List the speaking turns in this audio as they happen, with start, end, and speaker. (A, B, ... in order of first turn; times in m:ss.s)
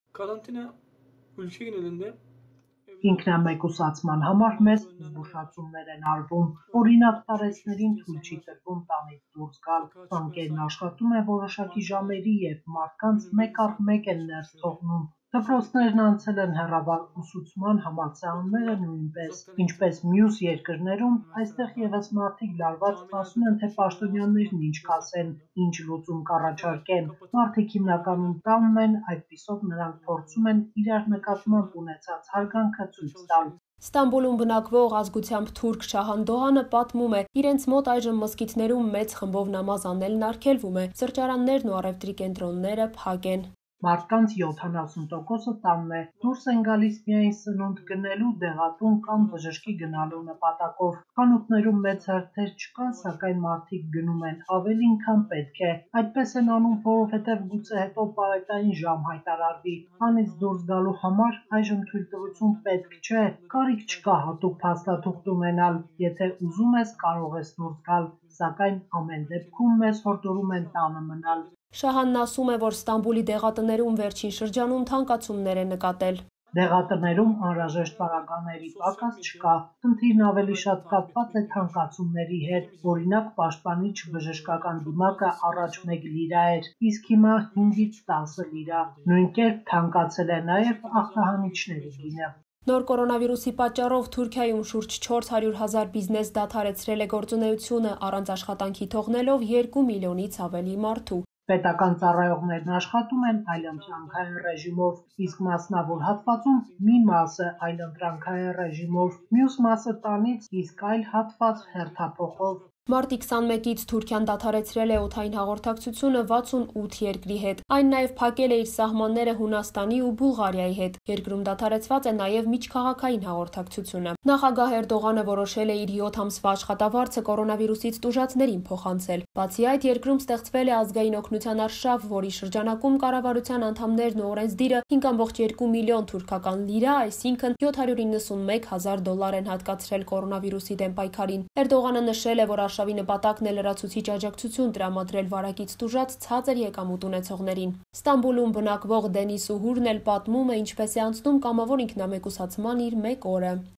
0:00.1-0:00.8 A
0:01.4-0:02.2 A
0:02.9-0:03.6 A
0:03.0-0:33.5 B
0:04.4-0:05.5 A
0:06.7-0:08.5 A
0:09.8-0:10.6 A
0:11.6-0:12.2 A
0:13.1-0:14.8 A
0:18.4-0:20.0 A
0:21.2-0:22.0 A
0:22.8-0:25.5 A
0:26.5-0:28.4 A
0:31.1-0:31.8 A
0:33.0-0:33.6 A
0:33.8-0:43.5 C
0:43.8-1:11.4 B
0:44.2-0:45.2 A
0:46.2-0:46.6 A
0:47.8-0:48.2 A
0:49.0-0:50.4 A
0:51.3-0:52.2 A
0:52.9-0:53.2 A
0:54.4-0:58.7 A
0:59.5-1:00.6 A
1:01.8-1:08.5 A
1:09.2-1:11.5 A
1:11.7-1:16.2 C
1:16.5-1:19.5 A
1:16.5-1:32.3 B
1:20.4-1:22.0 A
1:22.5-1:23.0 A
1:24.1-1:25.9 A
1:27.5-1:29.3 A
1:30.6-1:32.2 A
1:32.7-1:41.2 C
1:41.5-1:52.6 B
1:41.9-1:42.3 A
1:43.2-1:44.3 A
1:45.0-1:49.8 A
1:50.7-1:52.7 A
1:52.9-2:33.6 C